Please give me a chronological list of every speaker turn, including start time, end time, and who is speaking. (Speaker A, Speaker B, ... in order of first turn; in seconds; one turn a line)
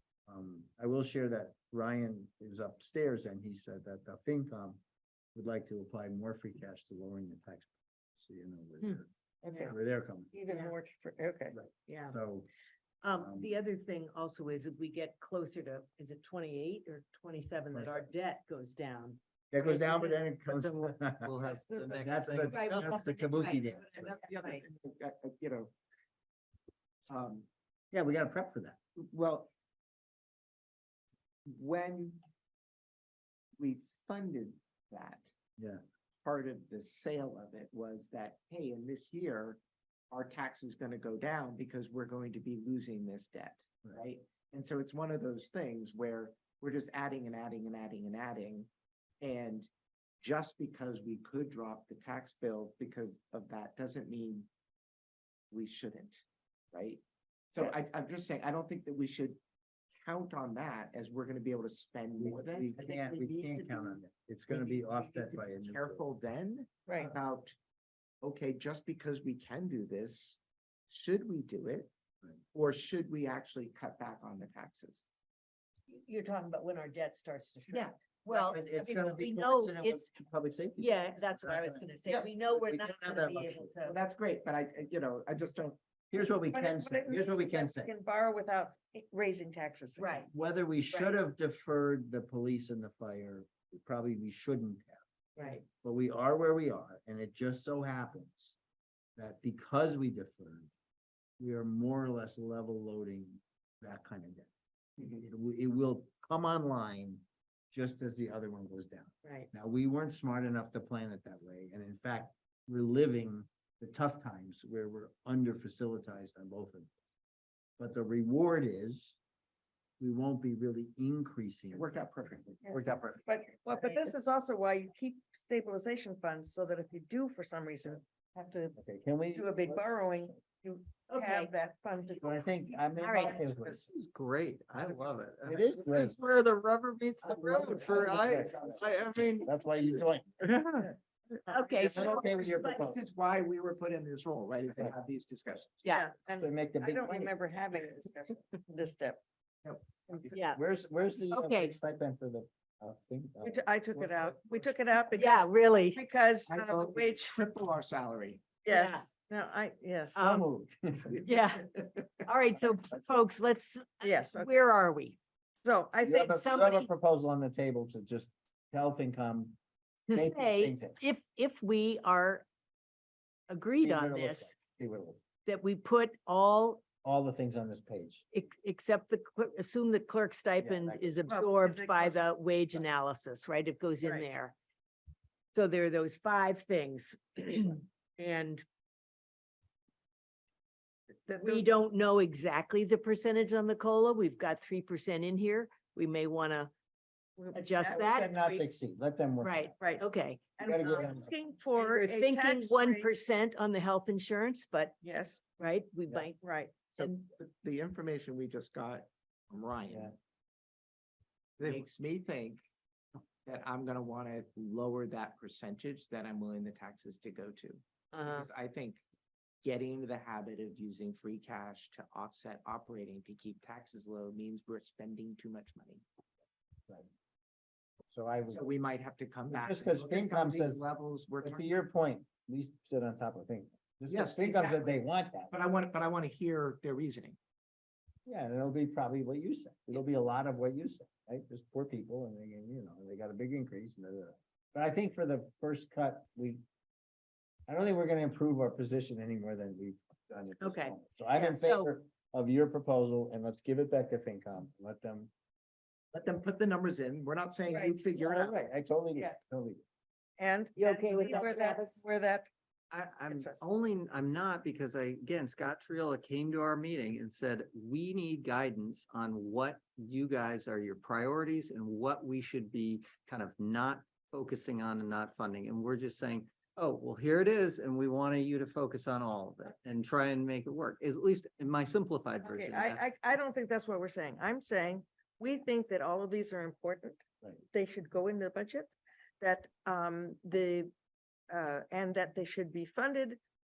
Speaker A: 0.3-4.8
Speaker A: 5.3-9.1
Speaker B: 9.4-9.8
Speaker A: 9.6-10.3
Speaker B: 10.3-11.5
Speaker C: 10.5-10.7
Speaker A: 11.5-12.5
Speaker C: 11.9-12.2
Speaker C: 13.0-20.7
Speaker A: 13.1-13.5
Speaker A: 17.7-18.1
Speaker A: 19.5-21.3
Speaker D: 21.2-23.0
Speaker A: 21.9-24.2
Speaker C: 22.4-24.6
Speaker E: 24.0-25.7
Speaker E: 27.1-27.5
Speaker A: 27.9-28.8
Speaker E: 28.9-29.5
Speaker E: 31.4-32.2
Speaker E: 33.6-35.3
Speaker E: 36.2-39.6
Speaker E: 40.1-48.7
Speaker E: 49.2-49.7
Speaker E: 50.2-54.5
Speaker E: 55.5-59.4
Speaker E: 60.0-67.6
Speaker A: 62.2-66.0
Speaker E: 68.2-71.9
Speaker E: 72.5-75.1
Speaker C: 75.9-80.1
Speaker A: 78.3-83.7
Speaker C: 80.8-84.0
Speaker E: 83.8-85.8
Speaker A: 86.1-87.9
Speaker B: 86.5-90.2
Speaker C: 90.0-90.3
Speaker A: 90.3-95.0
Speaker C: 95.3-95.6
Speaker A: 95.8-98.5
Speaker A: 99.2-100.7
Speaker A: 101.4-104.5
Speaker A: 105.1-116.9
Speaker C: 109.2-109.5
Speaker A: 117.8-119.2
Speaker A: 120.0-121.8
Speaker E: 121.7-122.7
Speaker A: 122.7-123.2
Speaker B: 123.2-128.8
Speaker A: 128.8-130.0
Speaker B: 129.3-133.8
Speaker C: 131.1-131.5
Speaker A: 132.2-133.9
Speaker C: 133.0-133.4
Speaker D: 133.7-139.5
Speaker A: 135.4-136.2
Speaker A: 137.2-140.5
Speaker C: 137.4-138.2
Speaker E: 140.4-140.9
Speaker C: 141.5-142.7
Speaker E: 141.5-145.8
Speaker A: 141.8-143.0
Speaker B: 145.9-149.2
Speaker A: 146.3-147.3
Speaker E: 149.6-150.3
Speaker C: 150.3-150.6
Speaker A: 150.5-154.4
Speaker C: 151.3-151.8
Speaker B: 153.4-157.4
Speaker C: 155.1-156.0
Speaker E: 156.5-158.5
Speaker B: 158.6-160.4
Speaker C: 158.7-159.1
Speaker C: 160.1-160.4
Speaker A: 160.2-161.3
Speaker C: 161.2-161.7
Speaker E: 161.8-162.1
Speaker C: 162.2-165.2
Speaker B: 164.0-164.5
Speaker B: 165.6-166.3
Speaker A: 166.0-169.6
Speaker C: 166.2-166.9
Speaker C: 170.1-172.4
Speaker A: 170.1-171.0
Speaker C: 173.5-174.6
Speaker A: 173.8-175.2
Speaker C: 175.4-176.8
Speaker A: 177.0-178.2
Speaker C: 178.3-184.5
Speaker A: 180.6-181.2
Speaker B: 181.3-182.3
Speaker B: 184.0-184.3
Speaker C: 185.5-188.6
Speaker B: 191.3-191.7
Speaker C: 191.3-196.7
Speaker B: 197.4-198.6
Speaker C: 197.5-198.3
Speaker A: 197.9-199.8
Speaker C: 199.4-201.1
Speaker B: 199.8-200.1
Speaker B: 200.6-203.1
Speaker A: 200.6-201.3
Speaker C: 201.8-205.0
Speaker B: 205.0-205.4
Speaker C: 205.6-206.4
Speaker B: 206.4-206.9
Speaker E: 206.9-210.1
Speaker E: 211.6-212.6
Speaker E: 213.4-219.0
Speaker C: 218.1-218.5
Speaker E: 219.6-226.0
Speaker A: 228.1-228.6
Speaker E: 228.5-231.7
Speaker A: 229.5-230.8
Speaker A: 231.4-235.5
Speaker E: 234.1-234.9
Speaker E: 235.5-237.4
Speaker A: 238.2-246.6
Speaker A: 247.7-255.3
Speaker C: 250.6-251.9
Speaker E: 256.1-258.6
Speaker B: 257.7-258.0
Speaker A: 258.2-259.8
Speaker B: 260.4-262.5
Speaker C: 260.8-262.0
Speaker D: 262.9-283.1
Speaker B: 263.3-263.6
Speaker B: 282.4-290.9
Speaker B: 291.5-293.4